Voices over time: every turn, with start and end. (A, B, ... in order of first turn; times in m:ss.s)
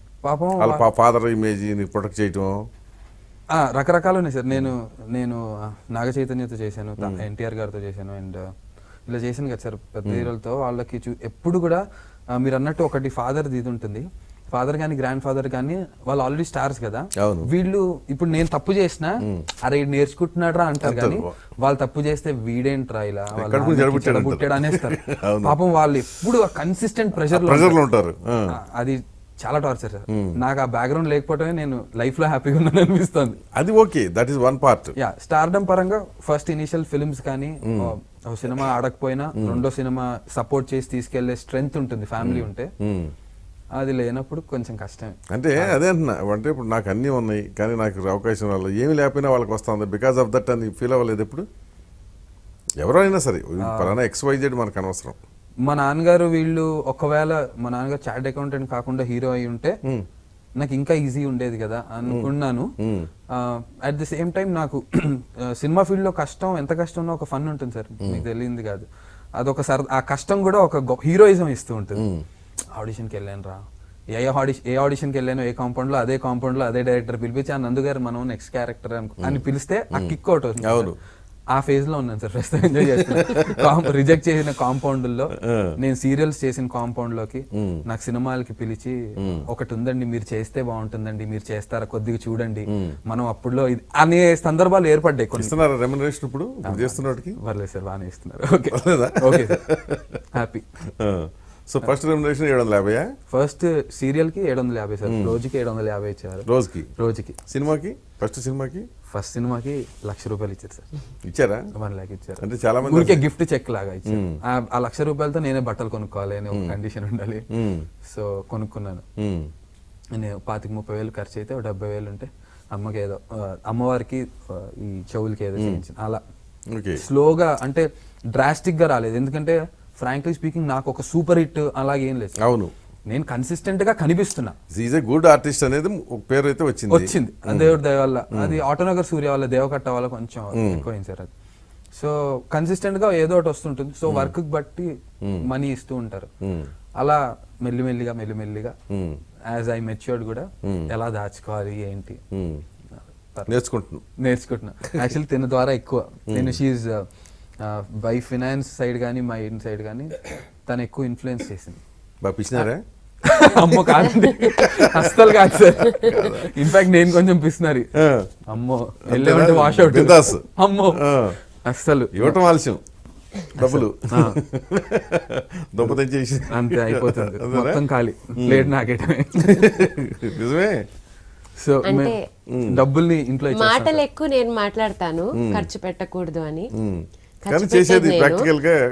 0:00.2-0:00.8 A
0:00.6-0:02.6 B
0:03.5-0:08.4 A
0:09.1-0:27.8 A
0:10.0-0:10.3 B
0:17.2-0:17.5 B
0:20.8-0:21.3 B
0:23.4-0:25.6 B
0:27.3-0:28.5 B
0:28.5-0:33.4 A
0:30.1-0:30.4 B
0:33.6-0:35.0 B
0:35.0-0:42.7 A
0:39.4-0:39.6 B
0:42.2-0:43.1 B
0:43.8-0:45.8 A
0:45.3-0:51.5 B
0:52.8-0:55.2 B
0:53.6-0:54.0 A
0:55.6-0:59.8 A
1:00.6-1:02.7 A
1:02.8-1:03.1 B
1:03.3-1:08.9 A
1:09.4-1:12.1 A
1:12.0-1:12.2 B
1:12.7-1:13.6 A
1:14.1-1:21.0 A
1:19.2-1:21.0 B
1:21.5-1:35.6 A
1:22.9-1:23.7 B
1:25.4-1:25.7 B
1:27.6-1:27.8 B
1:35.4-1:37.4 B
1:36.6-1:39.7 A
1:38.7-1:40.2 B
1:40.3-1:40.7 A
1:41.0-1:43.1 B
1:43.3-1:47.4 A
1:45.1-1:45.4 B
1:46.5-1:46.9 B
1:47.5-1:48.9 B
1:49.1-1:50.9 A
1:51.3-1:51.7 B
1:51.7-1:57.5 A
1:52.4-1:53.3 B
1:54.1-1:54.4 B
1:57.5-1:57.9 B
1:58.0-1:59.0 A
1:59.2-1:59.5 B
2:00.2-2:06.2 A
2:06.7-2:07.0 B
2:07.0-2:12.4 A
2:12.4-2:12.7 B
2:13.1-2:14.6 A
2:14.7-2:17.8 B
2:16.9-2:21.3 A
2:18.3-2:18.6 B
2:20.6-2:20.9 B
2:22.0-2:26.3 A
2:24.1-2:24.3 B
2:26.4-2:26.7 B
2:27.0-2:28.8 A
2:28.9-2:29.2 B
2:29.5-2:32.2 A
2:30.6-2:30.9 B
2:32.3-2:32.6 B
2:33.5-2:34.0 B
2:34.2-2:37.1 A
2:36.3-2:36.6 B
2:37.6-2:41.8 A
2:42.2-2:42.8 B
2:43.2-2:47.9 A
2:44.0-2:44.5 C
2:44.4-2:46.7 B
2:48.0-2:48.3 B
2:48.5-2:52.4 A
2:49.1-2:51.4 B
2:52.1-2:52.8 B
2:53.5-2:54.4 A
2:53.6-2:57.8 B
2:56.5-2:59.9 A
2:58.4-2:58.7 B
2:59.4-3:00.8 B
3:01.6-3:04.0 A
3:01.8-3:02.2 C
3:02.5-3:02.8 B
3:03.5-3:06.7 C
3:05.4-3:05.7 B
3:06.8-3:08.8 B
3:07.5-3:08.5 C